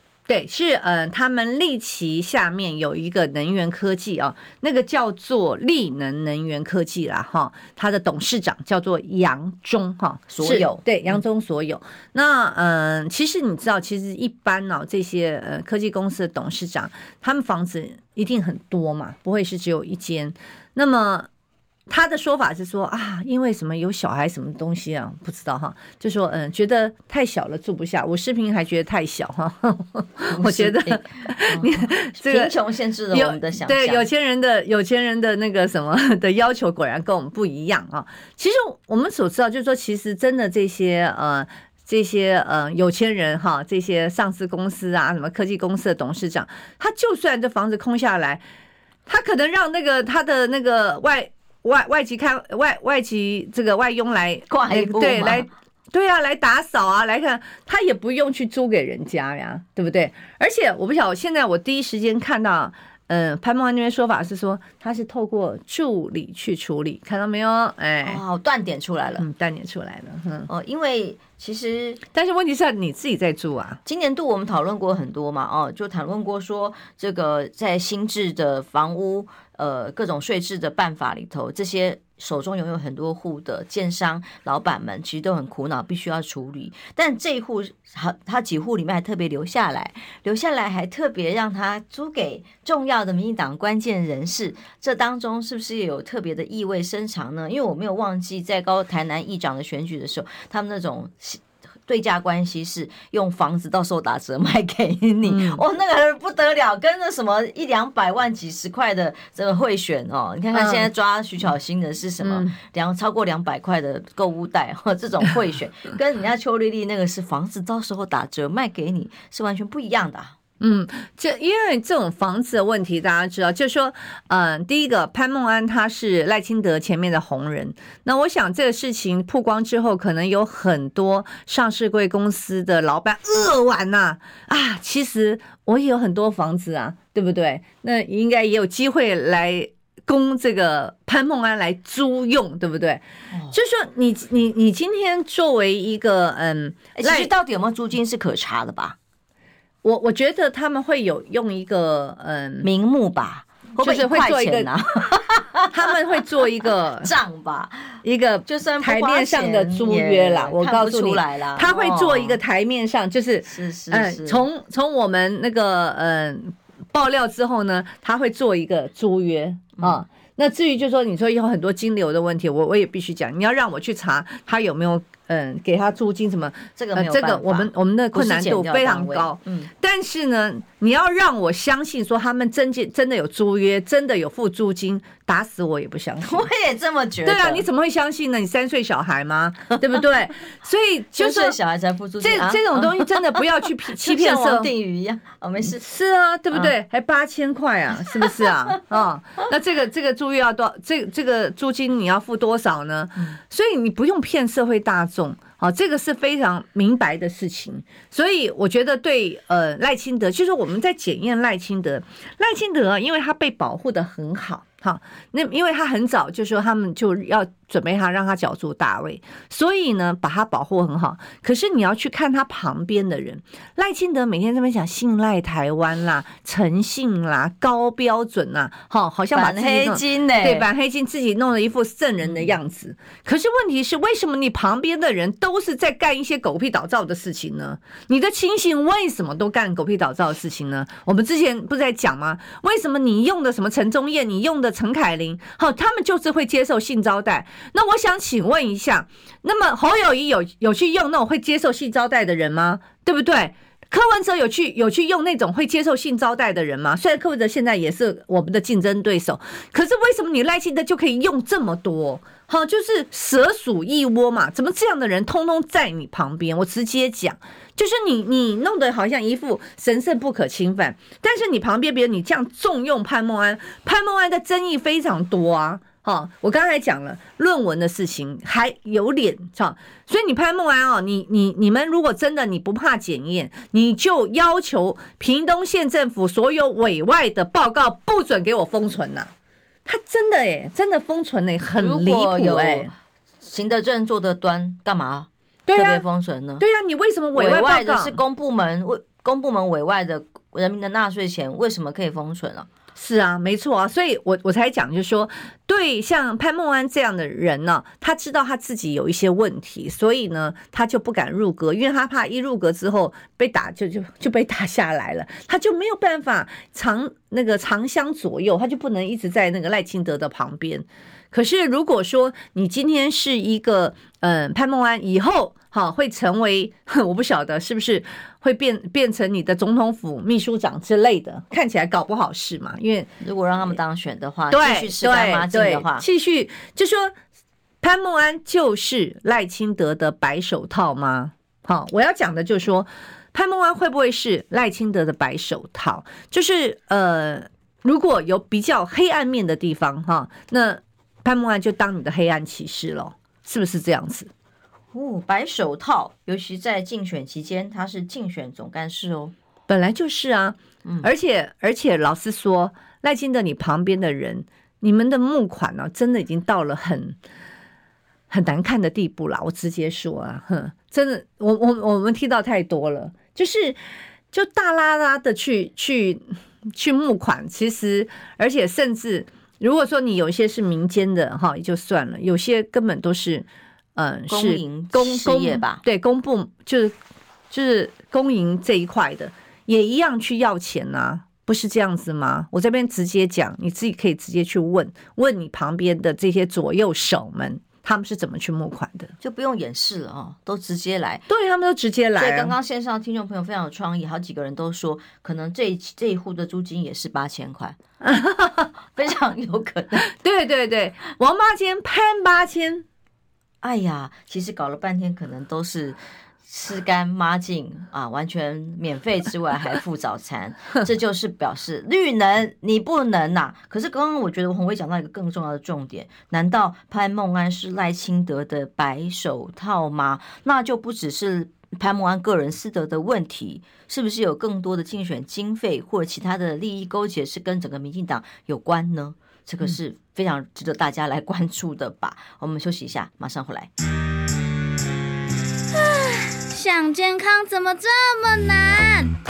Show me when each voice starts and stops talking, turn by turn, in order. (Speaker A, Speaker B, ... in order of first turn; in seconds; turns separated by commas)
Speaker A: 0.3-21.3, Speaker B: 10.3-11.2, Speaker A: 21.9-32.5, Speaker B: 30.3-34.1, Speaker A: 33.1-48.4, Speaker A: 49.1-68.2, Speaker B: 54.5-55.5, Speaker B: 68.0-69.3, Speaker A: 69.2-70.5, Speaker B: 70.5-72.0, Speaker A: 72.1-73.8, Speaker B: 73.9-120.3, Speaker A: 105.3-105.6, Speaker A: 110.5-110.9, Speaker A: 112.2-112.5, Speaker A: 120.6-147.3, Speaker B: 146.9-149.0, Speaker A: 149.8-152.7, Speaker B: 152.6-162.4, Speaker A: 153.8-154.7, Speaker A: 155.7-157.1, Speaker A: 158.0-186.5, Speaker B: 163.5-164.4, Speaker B: 176.8-179.7, Speaker B: 186.2-187.7, Speaker A: 187.2-191.6, Speaker B: 189.7-190.0, Speaker B: 191.2-195.8, Speaker A: 192.2-194.7, Speaker A: 195.6-289.3, Speaker B: 198.1-198.8, Speaker B: 229.3-230.7, Speaker B: 232.2-232.5, Speaker A: 289.9-292.9, Speaker B: 291.8-296.6, Speaker A: 295.7-296.1, Speaker A: 296.6-298.2, Speaker B: 297.3-302.7, Speaker A: 303.0-333.1, Speaker B: 333.2-336.1, Speaker A: 334.5-337.1, Speaker A: 337.8-354.3, Speaker B: 354.9-359.3, Speaker A: 359.7-367.2, Speaker A: 368.3-373.8, Speaker A: 374.3-386.9, Speaker B: 384.3-385.8, Speaker A: 387.5-399.1, Speaker B: 399.2-401.2, Speaker A: 401.3-402.6, Speaker B: 402.2-407.8, Speaker A: 408.0-408.7, Speaker B: 408.9-410.1, Speaker A: 410.1-412.9, Speaker B: 413.6-443.7, Speaker C: 445.7-449.1